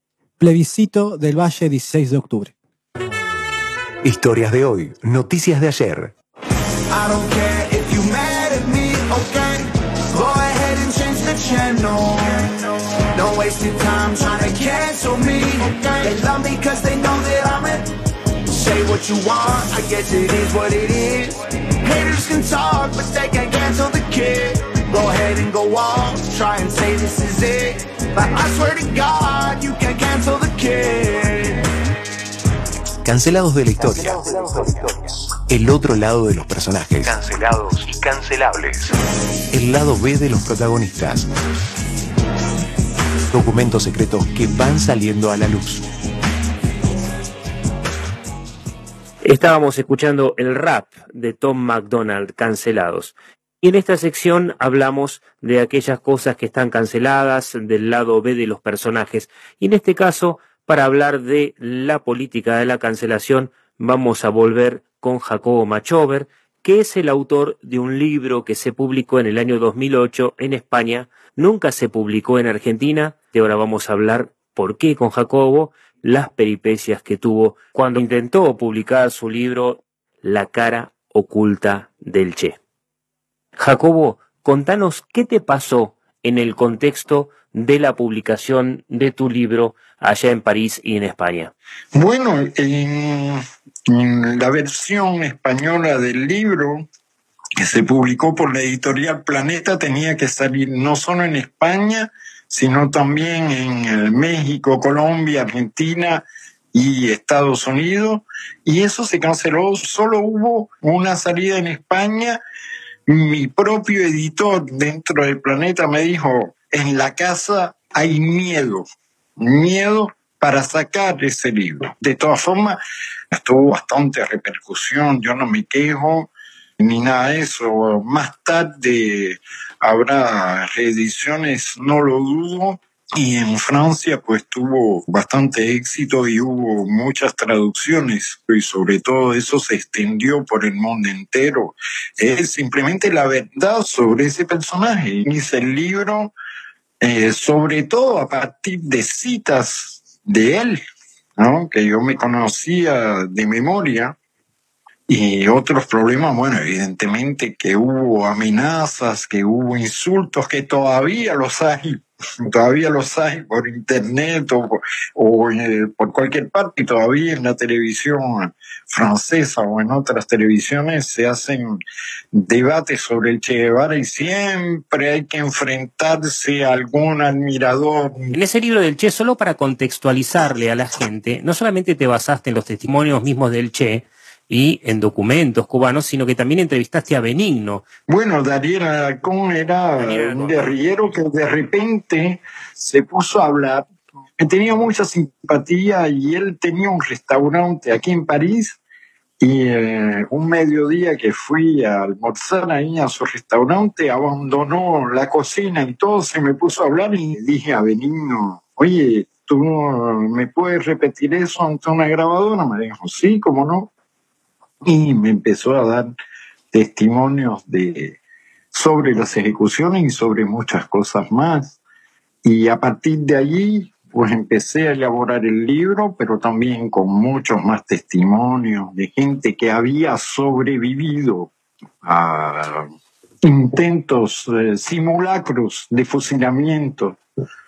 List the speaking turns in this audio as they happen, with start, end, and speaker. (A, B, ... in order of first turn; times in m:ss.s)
0:00.4-0:02.5 A
0:04.0-0:06.1 B
0:06.9-0:17.9 C
0:18.5-0:31.6 C
0:33.0-0:38.9 B
0:39.5-0:41.3 B
0:43.3-0:45.8 B
0:49.2-1:22.6 D
1:23.6-1:31.5 D
1:31.9-1:36.9 E
1:37.6-1:46.2 E
1:46.7-1:52.4 E
1:53.1-1:58.8 E
1:59.4-2:02.8 E
2:03.3-2:06.3 E
2:06.8-2:26.3 E
2:27.0-2:30.8 E
2:31.4-2:34.2 E
2:35.1-2:51.8 E
2:52.3-2:58.3 E
2:58.3-3:07.9 D
3:08.1-3:13.9 E
3:10.0-3:10.8 D
3:14.4-3:18.8 E
3:19.4-3:33.9 E
3:34.8-3:36.1 E
3:36.7-3:38.2 E
3:38.7-3:41.8 E
3:42.4-3:51.5 E
3:52.0-3:52.9 E
3:53.4-3:57.2 E